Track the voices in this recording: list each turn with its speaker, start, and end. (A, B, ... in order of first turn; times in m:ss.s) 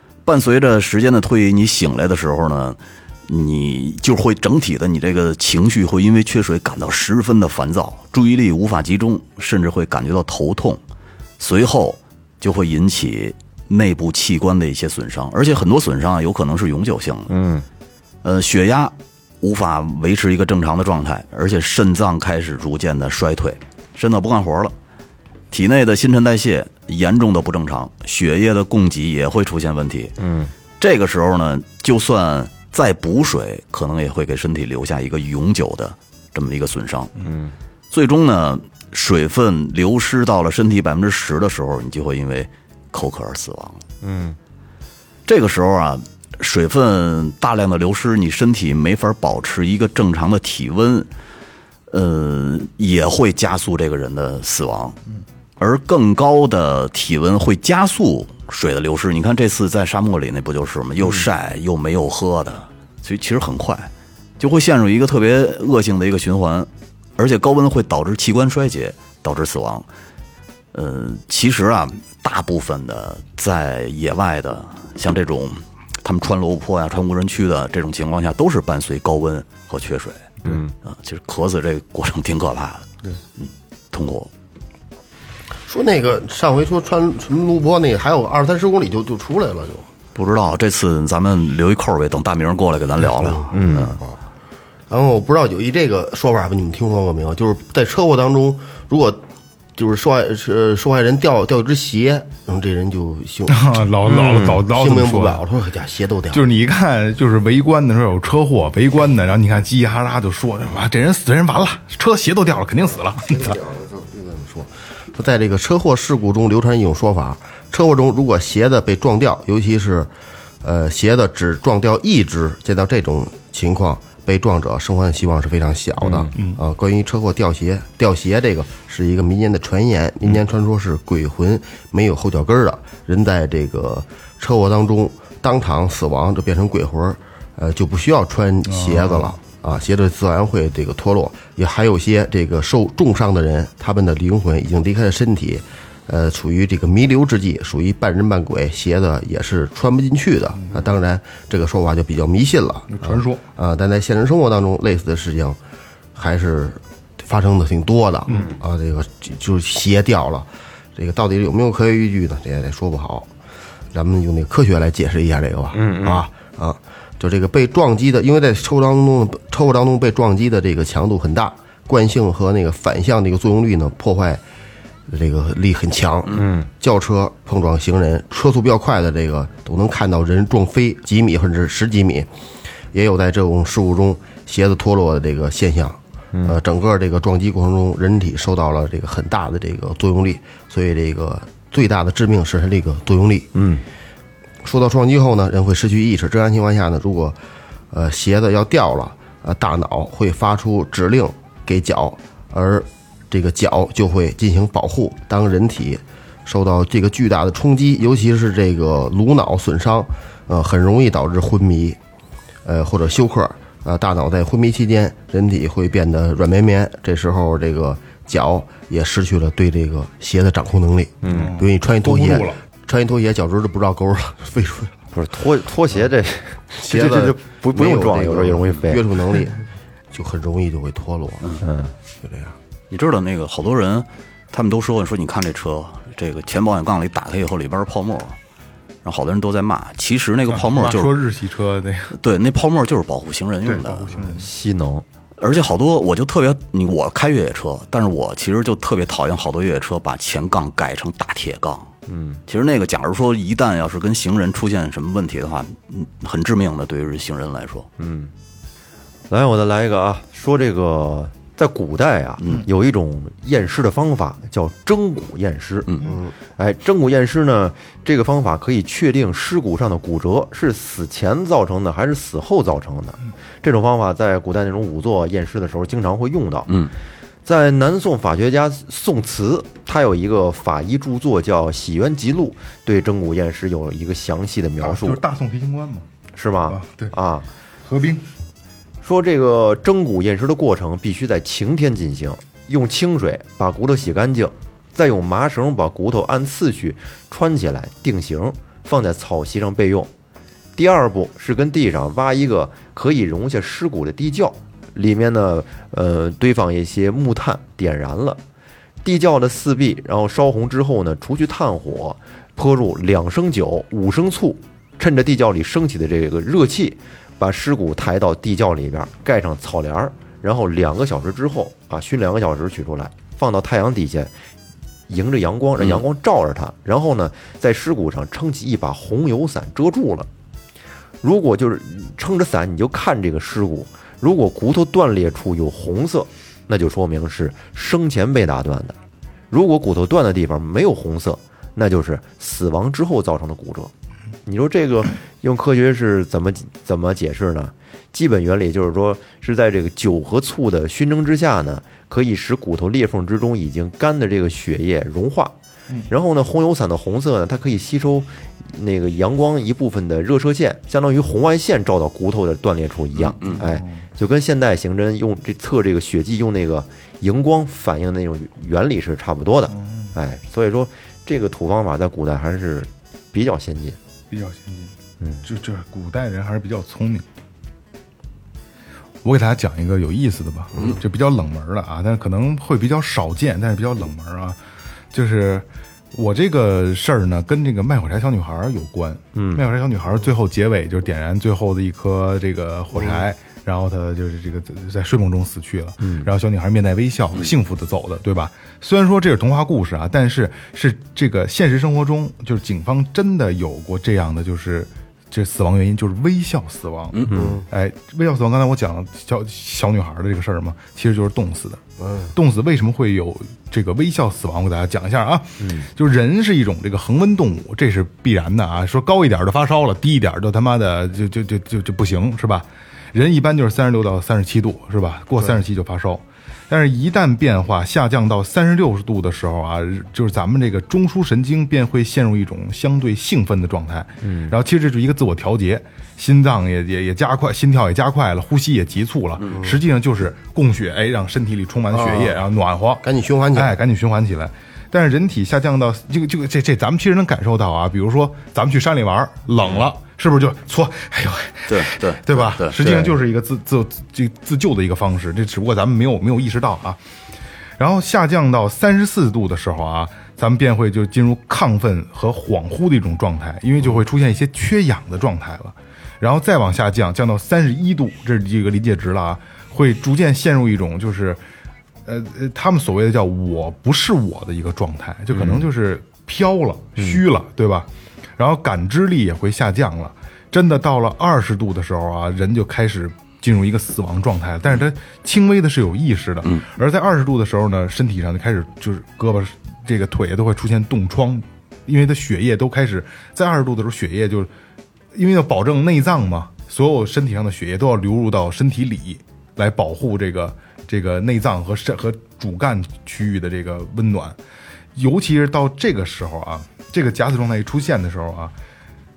0:00.2-0:10.8 A
0:11.4-0:17.3 A
0:17.3-0:17.6 B
0:18.2-0:24.7 A
0:25.5-0:30.2 A
0:30.2-0:30.5 B
0:30.8-0:37.1 A
0:37.2-0:37.5 B
0:37.9-0:43.8 A
0:44.0-0:44.4 B
0:45.2-0:51.1 A
0:51.9-0:55.0 A
0:55.6-1:09.9 A
1:10.7-1:24.3 A
1:20.4-1:20.7 B
1:25.6-1:29.9 C
1:30.1-1:34.0 A
1:33.2-1:34.2 C
1:33.5-1:34.0 B
1:34.9-1:39.2 C
1:39.8-1:46.4 C
1:43.5-1:45.4 D
1:44.1-1:44.5 B
1:46.3-1:53.6 D
1:53.2-2:00.1 C
2:00.6-2:35.6 C
2:06.0-2:06.3 B
2:18.7-2:19.4 D
2:32.9-2:33.4 D
2:36.1-2:43.3 C
2:43.9-2:54.4 C
2:45.7-2:46.3 B
2:55.1-3:02.3 C
2:56.3-2:56.7 B
3:02.9-3:13.5 C
3:06.3-3:06.6 B
3:13.5-3:13.8 B
3:14.6-3:17.4 C
3:17.9-3:32.0 C
3:32.6-3:44.9 C
3:41.2-3:41.6 B
3:41.2-3:42.6 D
3:45.1-3:49.0 B
3:46.8-3:49.6 C
3:50.1-3:51.5 C
3:51.6-3:51.9 B
3:52.2-3:52.5 C
3:52.9-3:58.4 A
3:59.0-4:01.1 A
4:00.5-4:02.2 D
4:02.1-4:04.1 A
4:03.6-4:04.5 D
4:04.1-4:05.0 B
4:05.4-4:11.9 A
4:12.1-4:12.4 B
4:12.4-4:17.9 A
4:18.0-4:18.3 B
4:19.3-4:36.7 B
4:22.4-4:22.6 A
4:26.0-4:26.3 C
4:37.4-4:45.2 B
4:44.8-4:46.0 D
4:46.3-4:47.5 B
4:46.6-4:47.1 D
4:47.8-4:48.2 D
4:49.0-5:00.1 B
5:00.8-5:08.4 B
5:09.0-5:24.3 B
5:25.1-5:30.3 B
5:31.2-5:39.0 B
5:39.5-5:43.9 B
5:44.4-5:55.5 B
5:56.1-6:14.0 B
6:03.2-6:03.6 A
6:03.6-6:04.0 D
6:09.7-6:10.1 D
6:14.3-6:14.9 D
6:15.4-6:17.2 D
6:19.2-6:24.6 D
6:25.1-6:51.8 D
6:29.3-6:29.6 B
6:36.0-6:36.3 B
6:47.3-6:47.6 B
6:47.3-6:47.6 C
6:52.0-6:52.3 C
6:52.3-7:37.0 D
6:55.6-6:55.9 B
7:14.2-7:14.6 B
7:19.5-7:19.8 C
7:21.9-7:22.4 C
7:23.0-7:23.7 C
7:31.7-7:32.8 A
7:37.8-7:51.4 D
7:52.0-8:14.5 D
8:15.1-8:24.4 D
8:24.9-8:28.5 D